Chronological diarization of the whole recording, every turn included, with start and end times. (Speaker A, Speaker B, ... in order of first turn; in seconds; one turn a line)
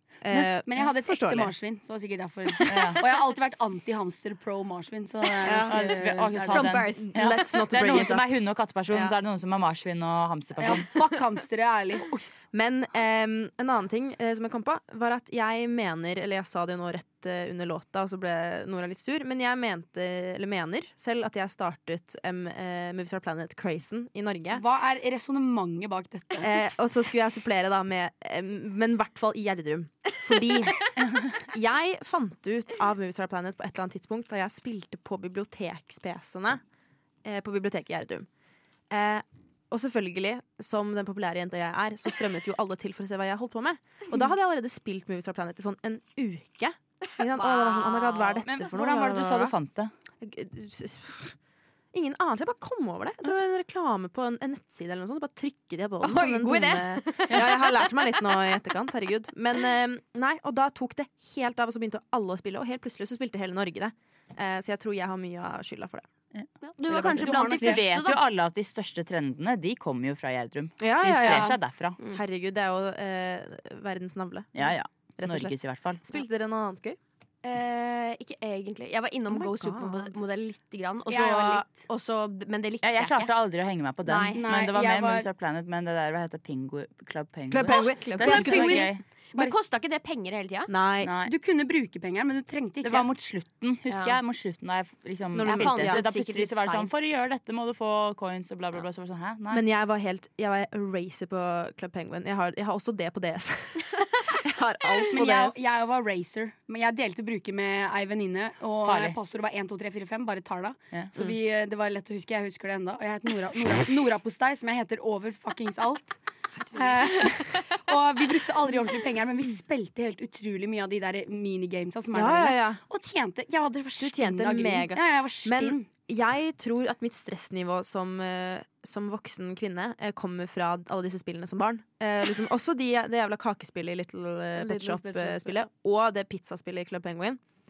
Speaker A: 0.2-1.5
Speaker B: 0.7-6.8
Speaker C: 2.7-3.1
Speaker A: 5.4-6.0
Speaker C: 5.7-10.9
Speaker D: 6.5-7.5
Speaker A: 7.0-8.3
Speaker A: 8.9-9.2
Speaker B: 10.6-12.1
Speaker A: 12.5-24.6
Speaker B: 24.5-26.5
Speaker A: 26.4-36.6
Speaker C: 31.0-31.3
Speaker A: 37.2-38.3
Speaker A: 38.9-49.5
Speaker D: 47.3-48.4
Speaker C: 48.5-49.9
Speaker A: 50.2-51.4
Speaker A: 51.9-66.1
Speaker D: 56.0-58.6
Speaker C: 66.3-72.0
Speaker D: 66.6-68.2
Speaker B: 67.0-67.8
Speaker A: 70.8-74.7
Speaker C: 74.5-76.0
Speaker A: 75.2-77.0
Speaker D: 77.4-83.3
Speaker A: 79.3-80.1
Speaker B: 81.1-81.9
Speaker C: 82.8-89.0
Speaker D: 84.1-84.4
Speaker B: 84.4-85.3
Speaker A: 87.5-88.9
Speaker D: 87.7-90.7
Speaker B: 88.3-88.8
Speaker A: 90.7-91.1
Speaker C: 91.0-91.3
Speaker B: 91.2-93.1
Speaker C: 92.8-99.6
Speaker D: 93.9-94.2
Speaker A: 95.3-96.0
Speaker D: 95.4-97.1
Speaker A: 99.5-105.6
Speaker B: 105.1-116.2
Speaker C: 108.8-109.2
Speaker A: 116.7-117.4
Speaker B: 116.7-125.9
Speaker A: 122.1-122.8
Speaker A: 124.0-137.4
Speaker D: 134.6-135.7